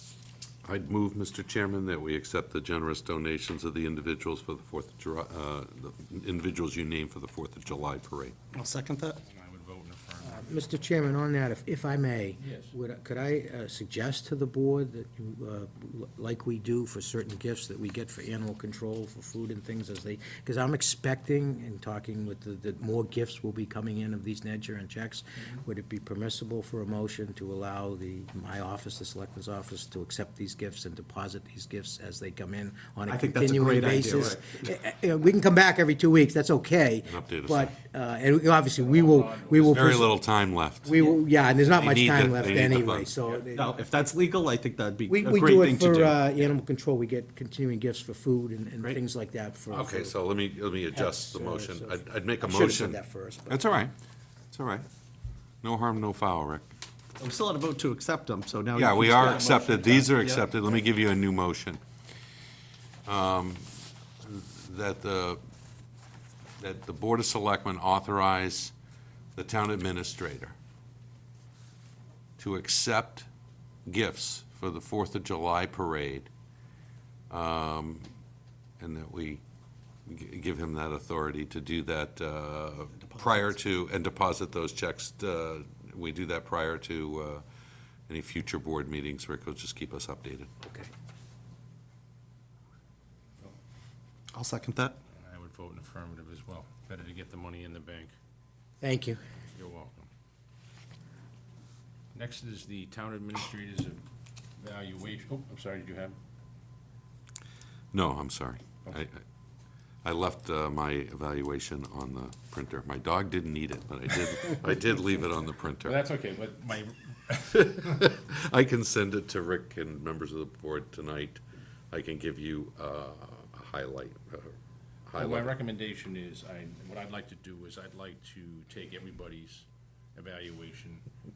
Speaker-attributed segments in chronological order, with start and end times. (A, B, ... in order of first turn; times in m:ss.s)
0:00.6-0:08.4 A
0:08.5-0:09.2 B
0:09.2-0:10.6 C
0:10.2-0:40.1 D
0:12.4-0:12.7 C
0:33.1-0:34.7 B
0:37.0-0:37.7 A
0:38.8-0:40.0 C
0:39.6-0:41.0 A
0:40.8-0:43.8 D
0:41.6-0:43.1 A
0:43.5-0:46.3 B
0:45.1-0:50.2 D
0:49.7-0:53.9 A
0:50.9-0:53.6 D
0:54.5-0:54.9 A
0:55.6-0:56.7 A
0:57.2-1:00.8 B
0:58.8-1:01.8 A
1:03.0-1:05.4 A
1:06.6-1:08.7 A
1:09.3-1:10.5 A
1:12.4-1:13.3 A
1:13.9-1:16.3 A
1:17.3-1:18.1 A
1:18.8-1:19.4 A
1:20.0-1:27.4 A
1:23.1-1:23.4 B
1:28.1-1:30.5 A
1:30.6-1:30.9 D
1:34.3-1:35.0 B
1:35.1-1:38.1 C
1:38.8-1:39.2 D
1:39.5-1:40.1 C
1:42.1-1:44.0 C
1:44.6-1:46.2 C
1:47.9-1:49.2 A
1:50.0-1:56.0 A
1:55.8-1:58.0 C
1:57.5-2:04.6 A
2:05.1-2:05.6 A
2:05.1-2:11.0 C